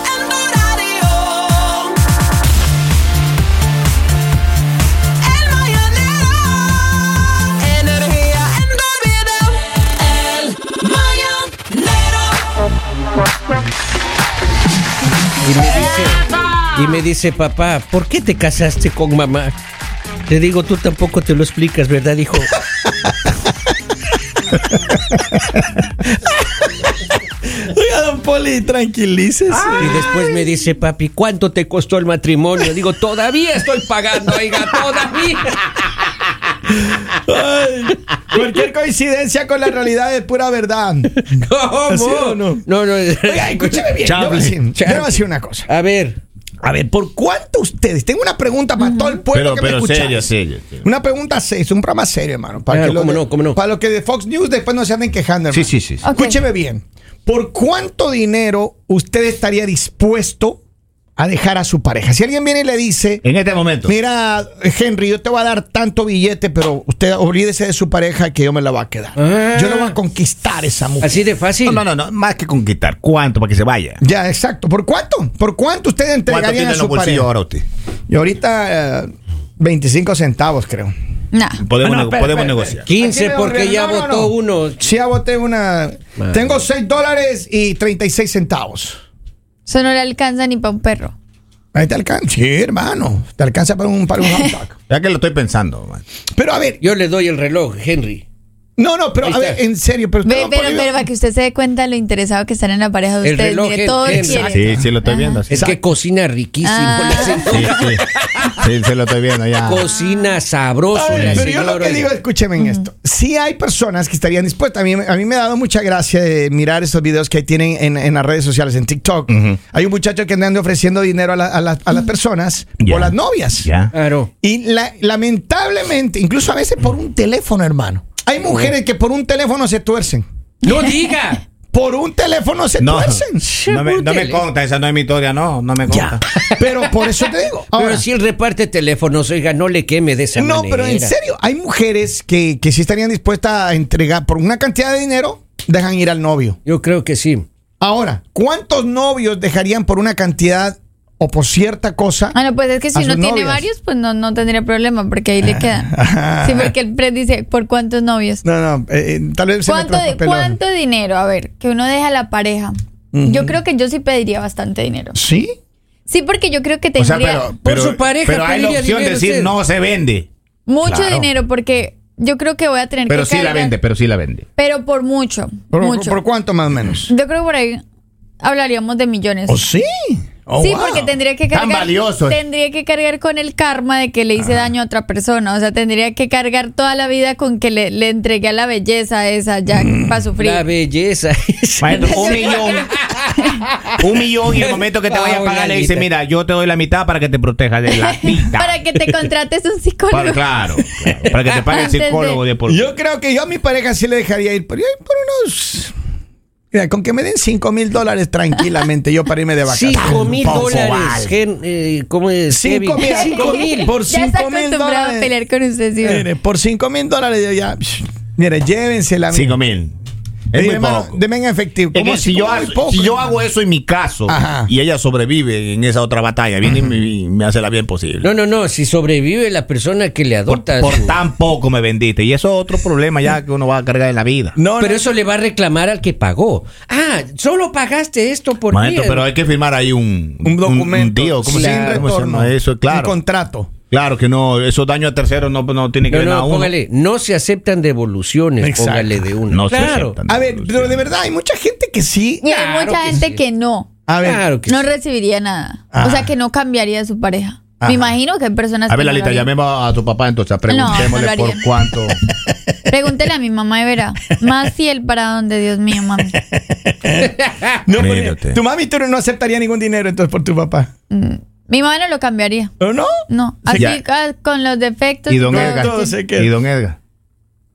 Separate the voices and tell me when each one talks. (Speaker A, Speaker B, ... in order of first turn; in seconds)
Speaker A: 0.4-1.2, 5.5-5.9, 7.8-9.4, 15.4-19.5, 20.3-22.5, 29.8-35.6, 41.2-44.0, 44.7-46.2, 52.7-53.6, 69.2-70.0, 71.0-71.8, 82.8-84.8, 86.2-86.6, 96.8-98.2, 99.2-99.6, 103.2-104.6, 105.5-108.5, 109.6-112.1, 123.9-124.3, 130.6-131.4, 133.4-134.5, 136.3-141.2, 146.7-147.4, 167.6-169.6, 190.4-193.6, 194.5-196.1, 201.2-201.5, 209.7-213.9, 228.2-231.2, 234.8-239.3, 241.5-242.1, 246.1-250.2, 252.4-253.4, 254.2-254.8
Speaker B: 26.2-26.9, 27.6-30.0, 36.7-41.1, 41.9-42.6, 43.2-45.7, 46.6-50.3, 50.8-60.6, 61.2-63.2, 63.8-71.2, 74.0-77.3, 78.1-80.9, 81.8-89.0, 91.7-94.7, 96.3-96.8, 98.8-100.9, 104.1-104.7, 105.5-105.8, 110.9-123.7, 124.4-130.2, 131.7-133.5, 135.9-138.1, 140.3-146.6, 147.8-152.3, 152.9-153.7, 155.4-156.7, 158.4-160.6, 163.1-163.6, 165.2-165.5, 175.7-177.1, 179.5-181.2, 189.7-190.2, 202.7-205.9, 206.7-211.0, 212.5-215.3, 216.0-219.6, 220.5-223.3, 224.3-224.7, 234.6-235.1, 240.4-243.7, 248.6-249.3, 250.3-252.4, 254.1-254.4, 255.9-256.3, 257.8-258.1, 266.3-267.3, 267.9-270.9, 272.8-273.1, 273.6-273.9, 275.5-276.5
Speaker C: 29.6-30.3, 44.0-44.6, 49.3-50.8, 55.5-56.0, 63.2-63.9, 71.6-74.0, 76.3-77.6, 81.6-82.9, 94.9-96.0, 104.4-105.7, 107.4-108.0, 108.6-109.8, 111.1-111.5, 119.3-119.6, 122.8-123.9, 132.8-136.2, 167.0-170.3, 170.8-171.3, 173.1-174.4, 181.5-182.4, 191.8-192.9, 194.0-198.8, 200.1-202.9, 210.0-211.3, 219.3-219.9, 220.5-221.2, 221.9-228.3, 230.5-234.6, 238.7-243.2, 243.8-246.7, 249.5-251.2, 258.9-262.2, 268.0-268.6, 273.7-274.0, 275.3-277.0
Speaker D: 48.8-49.2, 56.0-56.4, 81.3-81.6, 89.7-91.1, 100.2-105.4, 106.6-107.7, 112.6-112.8, 152.3-158.4, 159.7-165.2, 166.1-167.5, 170.7-173.8, 174.6-176.2, 177.1-177.8, 178.4-179.6, 180.6-190.7, 192.0-192.6, 197.9-200.4, 201.7-202.4, 213.0-216.3, 252.4-253.9, 254.7-259.5, 260.7-261.6, 262.9-266.4, 271.1-272.7, 273.3-276.2